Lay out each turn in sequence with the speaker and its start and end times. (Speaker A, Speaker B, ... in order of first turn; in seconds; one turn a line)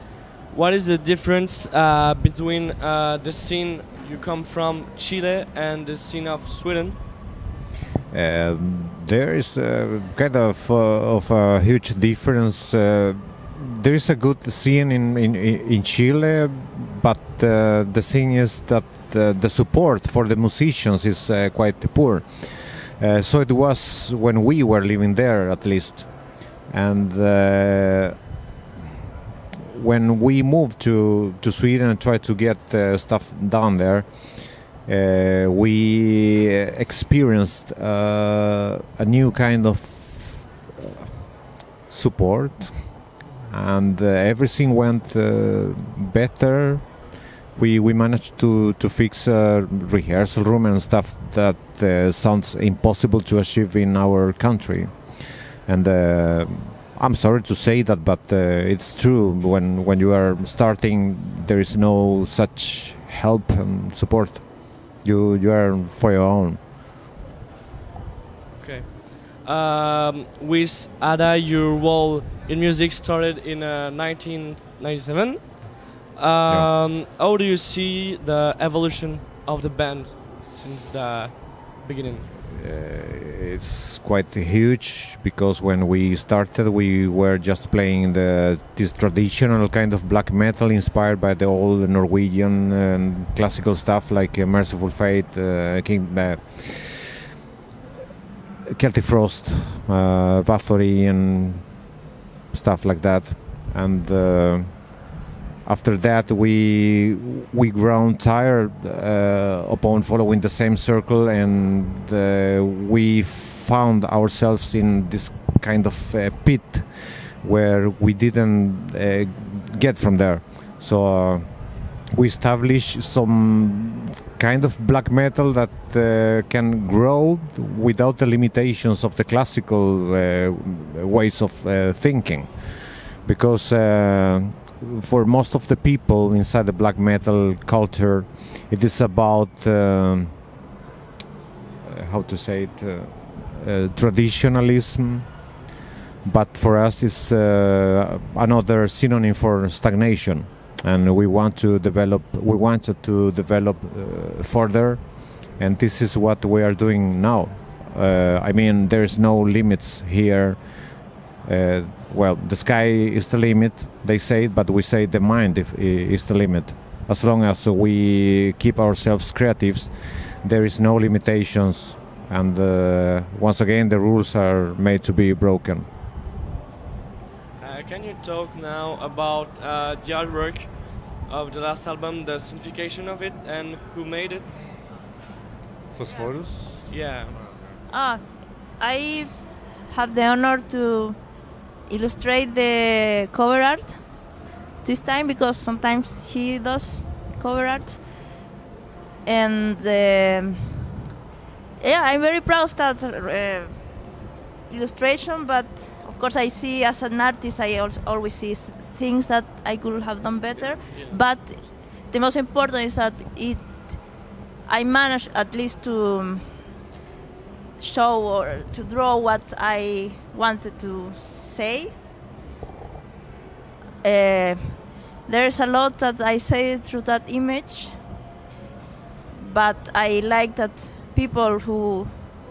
Speaker A: 0.5-7.0
Speaker B: 8.1-28.3
Speaker B: 29.7-66.6
Speaker A: 68.6-82.3
Speaker B: 82.5-97.1
Speaker B: 98.7-101.9
Speaker B: 102.5-105.1
Speaker B: 105.6-140.4
Speaker B: 141.8-145.5
Speaker B: 146.2-175.9
Speaker A: 177.6-184.6
Speaker B: 185.9-187.7
Speaker A: 186.9-187.4
Speaker C: 187.9-188.2
Speaker C: 188.8-191.2
Speaker C: 191.9-194.0
Speaker C: 194.8-198.0
Speaker C: 199.2-200.9
Speaker C: 201.8-203.8
Speaker C: 204.7-216.6
Speaker A: 210.5-211.3
Speaker C: 217.8-221.9
Speaker C: 224.0-228.0
Speaker C: 229.3-232.3